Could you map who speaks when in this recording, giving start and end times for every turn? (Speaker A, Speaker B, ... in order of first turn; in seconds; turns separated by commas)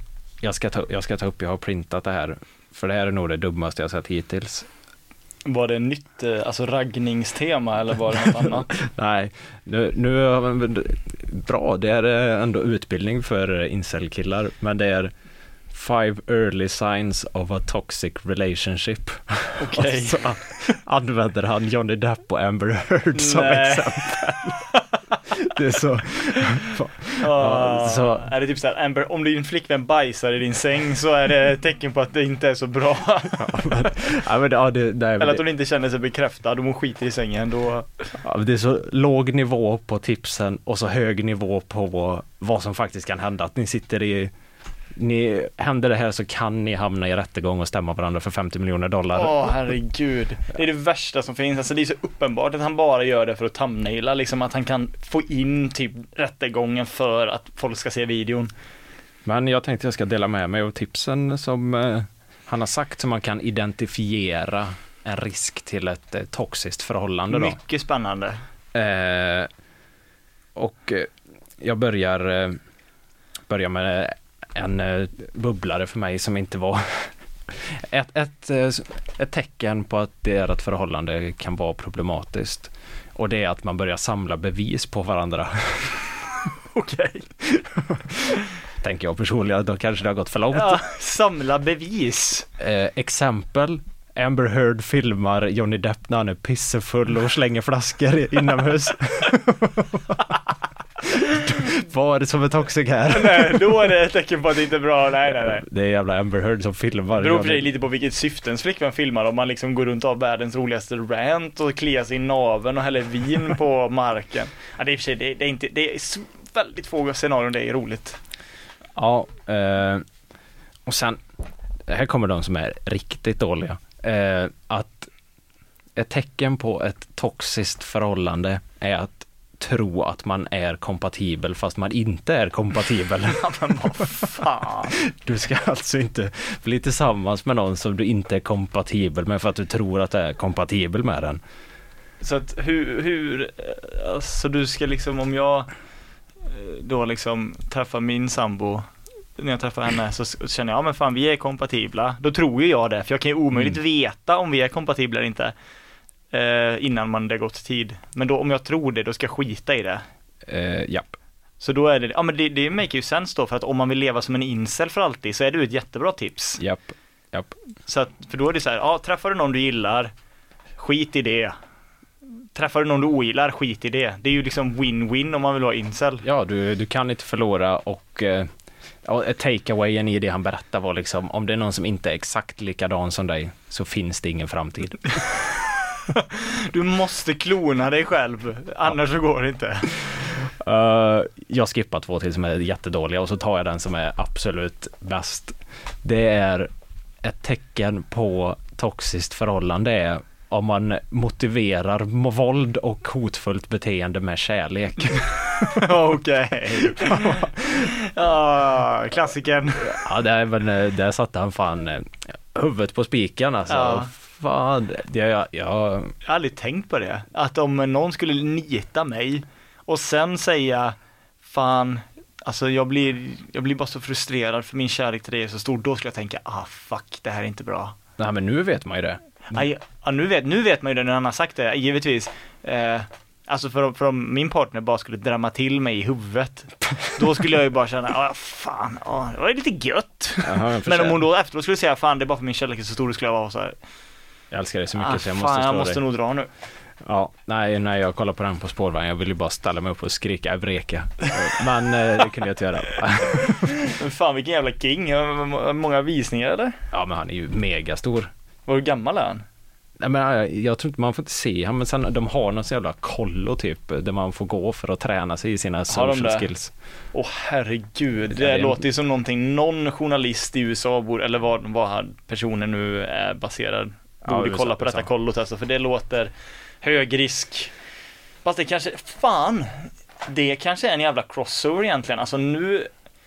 Speaker A: 0.4-4.7, Speaker B: 5.5-8.7, Speaker A: 8.4-15.1, Speaker A: 15.7-24.6, Speaker B: 19.6-20.8, Speaker B: 23.1-25.2, Speaker A: 25.3-28.3, Speaker B: 27.2-34.0, Speaker A: 33.3-35.4, Speaker B: 35.2-38.1, Speaker A: 38.2-44.3, Speaker A: 44.9-49.5, Speaker B: 49.1-58.5, Speaker A: 59.2-67.6, Speaker B: 67.3-68.4, Speaker A: 68.7-69.5, Speaker A: 70.5-72.6, Speaker A: 73.5-86.0, Speaker B: 86.7-87.6, Speaker A: 88.8-90.8, Speaker B: 90.5-92.5, Speaker A: 92.6-100.2, Speaker A: 101.3-103.8, Speaker B: 103.1-105.6, Speaker A: 105.6-107.7, Speaker B: 107.2-118.2, Speaker A: 119.0-120.0, Speaker A: 120.9-121.2, Speaker A: 121.9-125.1, Speaker A: 126.0-134.1, Speaker B: 133.3-135.0, Speaker A: 135.0-141.4, Speaker B: 142.2-145.7, Speaker B: 146.4-155.5, Speaker B: 156.3-160.0, Speaker A: 160.4-161.2, Speaker B: 161.6-166.6, Speaker A: 166.6-167.6, Speaker B: 167.9-170.1, Speaker B: 170.8-171.6, Speaker B: 172.6-176.2, Speaker A: 176.2-178.5, Speaker A: 179.0-185.3, Speaker B: 186.1-190.2, Speaker A: 190.6-196.7, Speaker A: 197.2-205.8, Speaker B: 205.7-210.0, Speaker A: 206.7-207.5, Speaker A: 209.8-216.1, Speaker B: 213.7-214.1, Speaker B: 216.2-227.9, Speaker A: 228.2-229.7, Speaker B: 229.5-243.7, Speaker A: 240.4-241.2, Speaker A: 244.5-246.0, Speaker B: 244.9-246.5, Speaker A: 247.0-253.7, Speaker B: 253.8-256.7, Speaker A: 256.9-258.3, Speaker B: 258.7-259.4, Speaker A: 260.0-266.7, Speaker B: 265.9-266.5, Speaker B: 267.1-277.7, Speaker A: 268.3-268.8, Speaker A: 274.2-275.1, Speaker B: 278.4-282.9